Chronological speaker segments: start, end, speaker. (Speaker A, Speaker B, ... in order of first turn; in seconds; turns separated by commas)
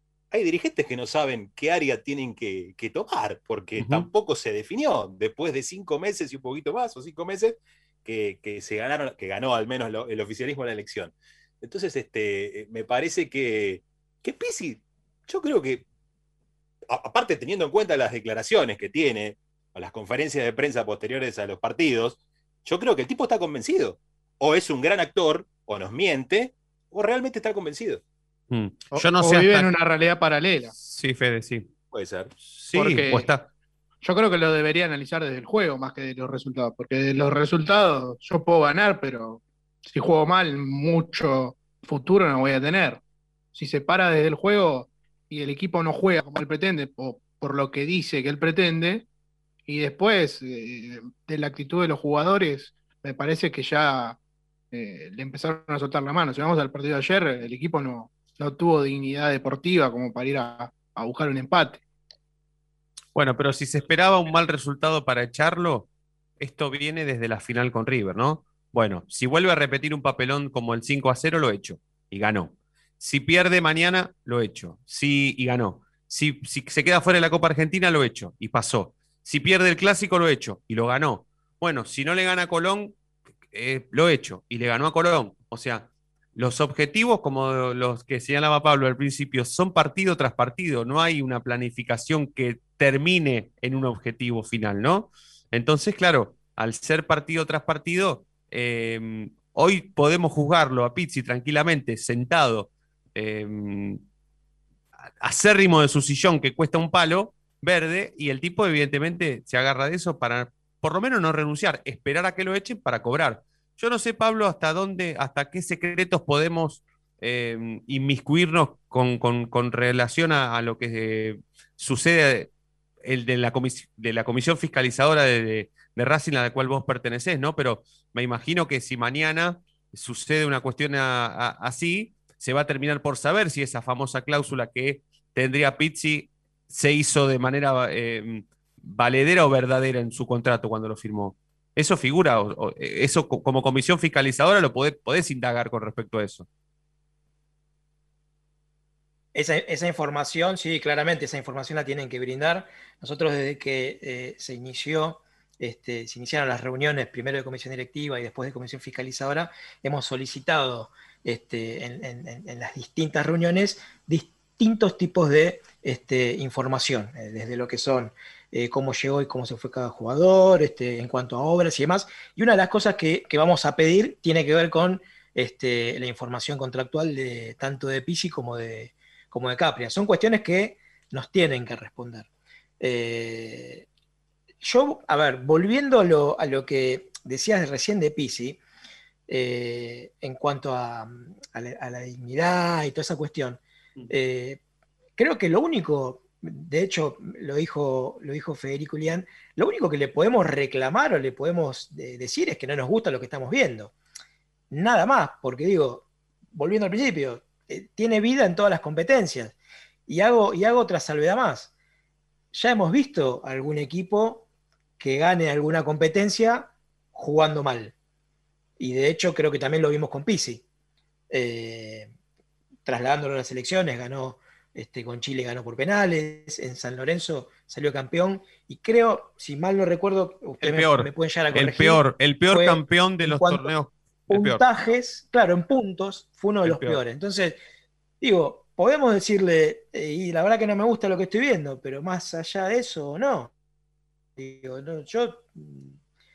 Speaker A: 0.3-15.8, Speaker B: 3.8-4.1, Speaker A: 16.9-28.0, Speaker B: 28.5-29.7, Speaker C: 28.9-30.7, Speaker B: 30.8-31.7, Speaker A: 31.9-32.3, Speaker B: 32.4-33.5, Speaker C: 32.7-33.3, Speaker C: 34.0-43.0, Speaker C: 43.5-49.0, Speaker C: 49.7-54.2, Speaker C: 54.7-61.8, Speaker B: 63.1-65.9, Speaker B: 66.4-83.0, Speaker B: 83.5-104.0, Speaker B: 105.2-122.5, Speaker B: 123.0-146.4, Speaker D: 149.3-182.3, Speaker D: 182.8-183.8, Speaker D: 184.6-188.6, Speaker D: 189.3-194.6, Speaker D: 195.2-203.9, Speaker D: 204.7-209.6, Speaker D: 210.1-211.7, Speaker D: 212.5-214.4, Speaker D: 215.0-217.9, Speaker D: 218.8-220.6, Speaker D: 221.3-222.1, Speaker D: 222.8-233.7, Speaker B: 230.6-234.6, Speaker D: 234.3-237.6, Speaker B: 236.6-237.0, Speaker D: 238.2-243.5, Speaker D: 244.4-245.9